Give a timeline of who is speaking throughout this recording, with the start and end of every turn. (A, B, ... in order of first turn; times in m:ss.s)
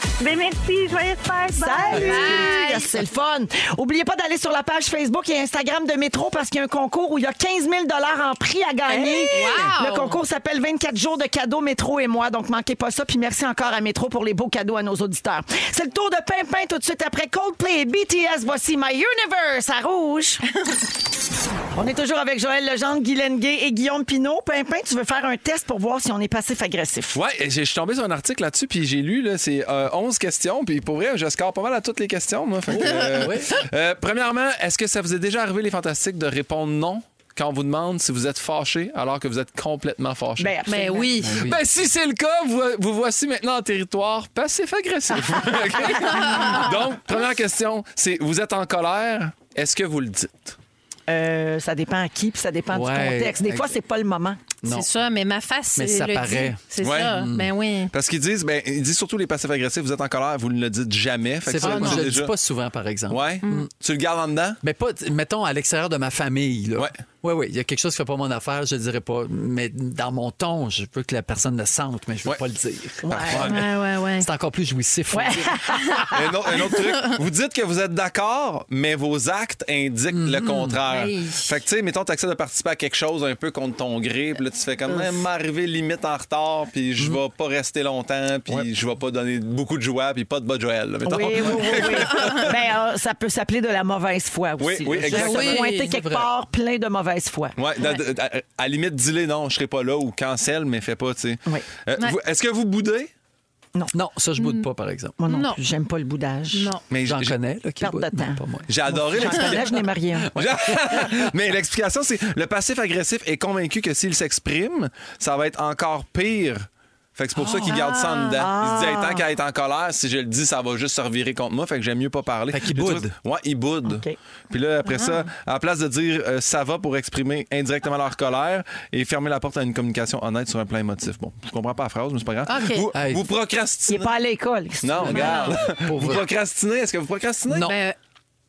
0:00.2-0:02.5 A
0:01.6-0:20.4 B
0:01.9-0:02.9 C
0:08.8-0:10.2 C
0:21.7-0:27.2 B
0:27.1-0:40.5 D
0:32.7-0:33.6 E
0:40.4-0:41.2 B
0:40.6-0:41.4 C
0:41.2-0:41.6 E
0:41.4-0:50.6 D
0:45.9-0:46.7 C
0:51.1-0:54.4 B
0:52.7-0:53.7 E
0:54.6-0:54.9 E
0:54.6-0:57.9 C
0:55.8-0:57.5 E
0:56.8-0:57.1 D
0:57.9-1:02.3 D
1:01.4-1:03.7 E
1:01.6-1:02.1 C
1:03.1-1:04.6 D
1:04.6-1:15.6 E
1:13.0-1:13.5 B
1:13.1-1:13.6 D
1:13.3-1:14.3 C
1:15.1-1:16.5 B
1:16.1-1:32.6 D
1:20.1-1:20.8 E
1:20.9-1:21.5 C
1:24.9-1:25.2 B
1:31.0-1:37.6 B
1:34.6-1:35.6 D
1:35.0-1:36.3 E
1:35.1-1:35.9 C
1:37.6-1:43.1 D
1:43.9-1:45.2 E
1:44.4-1:44.7 C
1:45.2-1:46.7 B
1:45.3-1:45.6 C
1:46.5-1:46.8 C
1:46.9-1:47.4 D
1:47.0-1:49.6 E
1:47.8-1:50.4 B
1:48.7-1:49.8 D
1:50.2-1:51.3 E
1:50.3-2:14.1 D
1:57.4-1:58.4 C
1:58.4-1:59.2 B
2:02.5-2:03.1 E
2:03.9-2:04.1 B
2:04.8-2:05.3 C
2:12.4-2:12.9 C
2:12.9-2:13.3 E
2:13.9-2:15.5 B
2:14.8-2:17.7 D
2:15.0-2:16.2 E
2:15.1-2:15.6 C
2:17.5-2:17.8 E
2:17.6-2:18.0 C